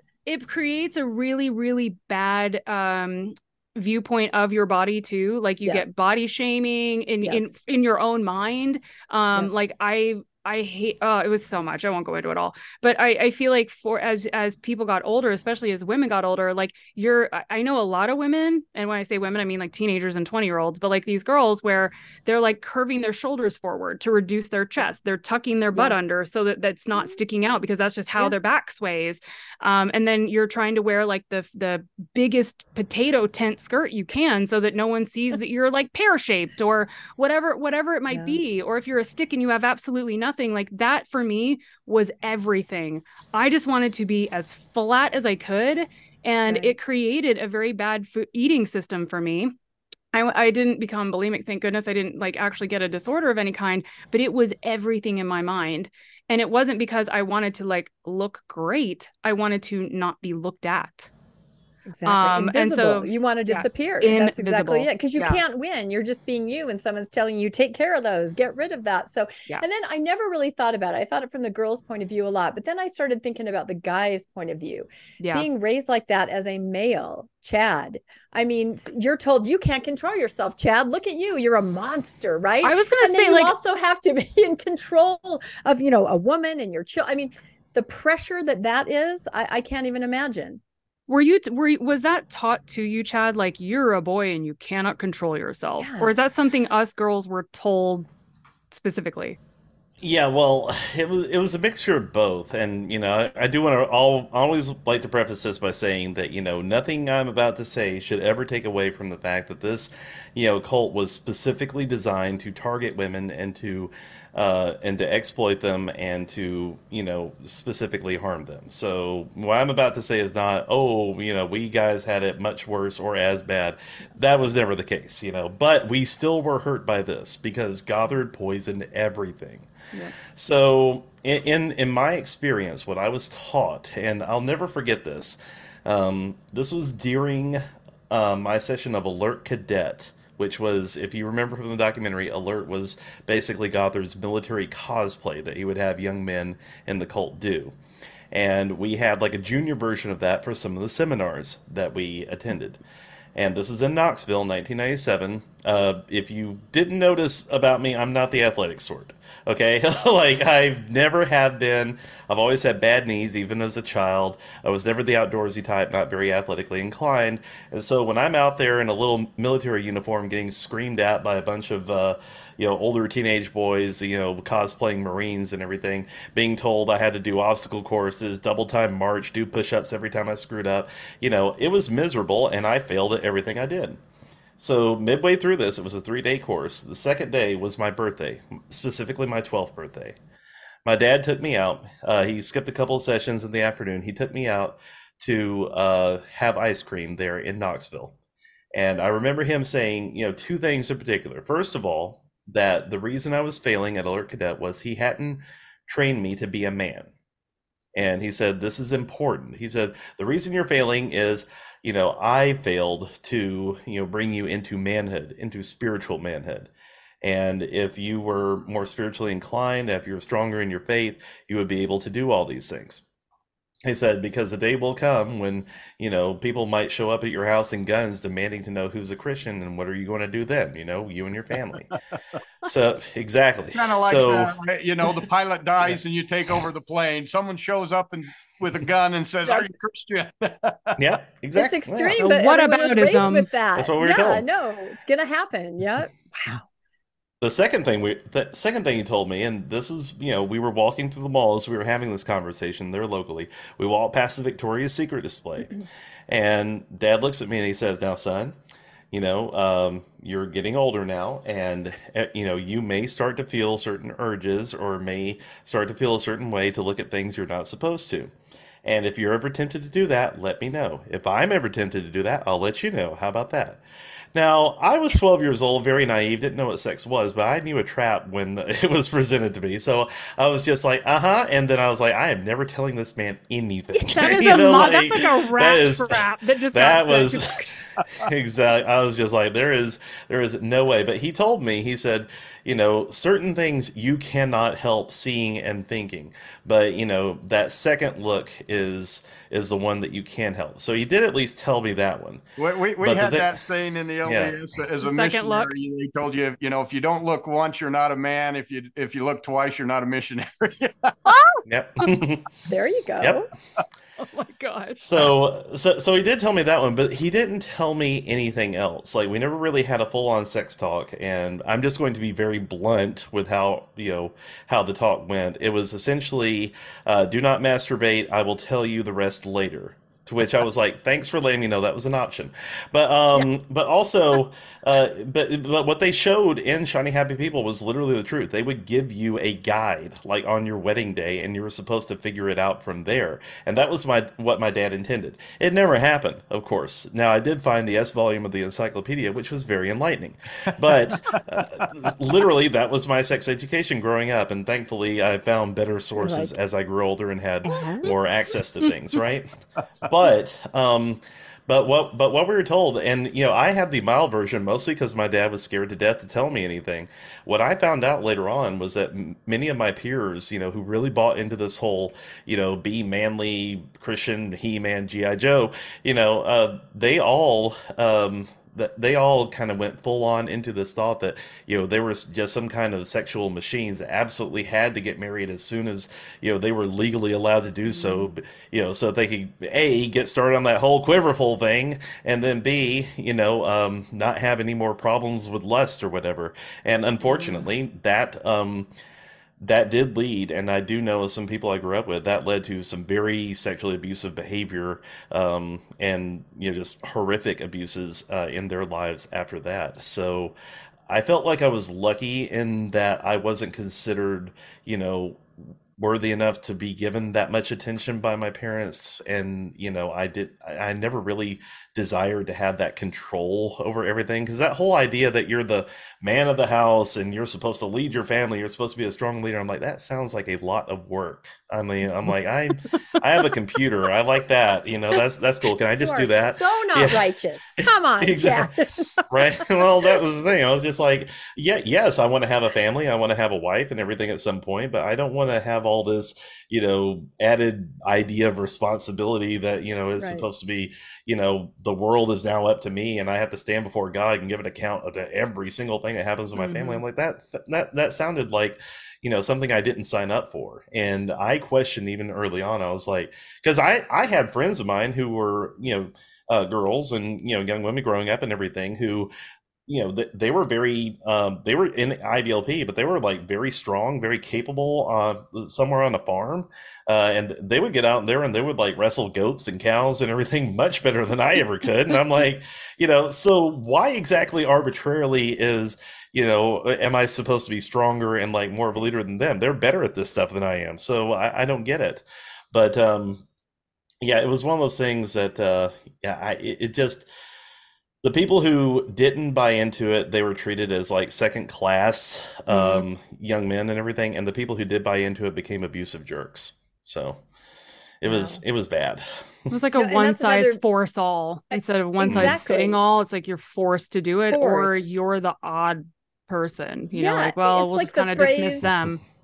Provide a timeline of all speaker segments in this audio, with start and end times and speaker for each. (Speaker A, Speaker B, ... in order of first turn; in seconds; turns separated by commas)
Speaker A: 0.3-49.5, Speaker B: 5.7-5.9, Speaker B: 26.9-27.2, Speaker B: 38.1-38.4, Speaker B: 46.5-46.8, Speaker A: 50.1-61.1, Speaker B: 61.9-90.6, Speaker A: 62.1-65.4, Speaker A: 75.2-75.5, Speaker A: 82.6-83.5, Speaker A: 91.1-98.1, Speaker B: 95.8-96.1, Speaker A: 98.7-99.4, Speaker C: 100.0-129.7, Speaker C: 130.2-147.7, Speaker C: 148.3-152.8, Speaker C: 153.3-184.0, Speaker C: 184.6-190.2, Speaker C: 190.8-198.2, Speaker C: 198.7-207.1, Speaker C: 207.9-216.7, Speaker C: 217.2-223.0, Speaker C: 223.8-231.9, Speaker C: 232.6-234.5, Speaker D: 233.7-241.0, Speaker C: 241.0-242.4, Speaker B: 241.5-246.7, Speaker A: 242.1-243.5, Speaker C: 243.1-244.4, Speaker C: 247.4-258.6, Speaker C: 259.1-268.3, Speaker C: 268.8-273.8, Speaker C: 274.3-287.5, Speaker A: 284.0-287.8, Speaker C: 288.2-302.4, Speaker D: 302.6-311.2, Speaker C: 303.0-303.6, Speaker C: 304.2-304.6, Speaker A: 305.0-305.7, Speaker A: 311.3-311.6, Speaker C: 311.7-312.5, Speaker B: 312.7-313.5, Speaker C: 313.2-313.4, Speaker A: 314.2-315.1, Speaker C: 315.0-359.5, Speaker D: 351.1-351.7, Speaker B: 356.2-356.5, Speaker B: 357.7-358.1, Speaker A: 357.7-358.1, Speaker C: 360.0-398.9, Speaker A: 387.9-388.3, Speaker A: 397.2-397.6, Speaker C: 399.6-410.5, Speaker C: 411.1-415.4, Speaker C: 416.0-437.3, Speaker B: 436.0-440.1, Speaker C: 438.2-438.7, Speaker C: 439.3-469.3, Speaker B: 450.2-450.4, Speaker A: 456.6-457.0, Speaker C: 469.9-493.4, Speaker C: 494.2-497.3, Speaker C: 498.2-507.4, Speaker A: 502.7-503.1, Speaker C: 508.2-509.8, Speaker B: 508.3-508.6, Speaker A: 509.7-519.2, Speaker B: 510.0-510.8, Speaker B: 511.7-513.0, Speaker C: 512.2-512.6, Speaker B: 514.5-515.1, Speaker B: 517.1-518.9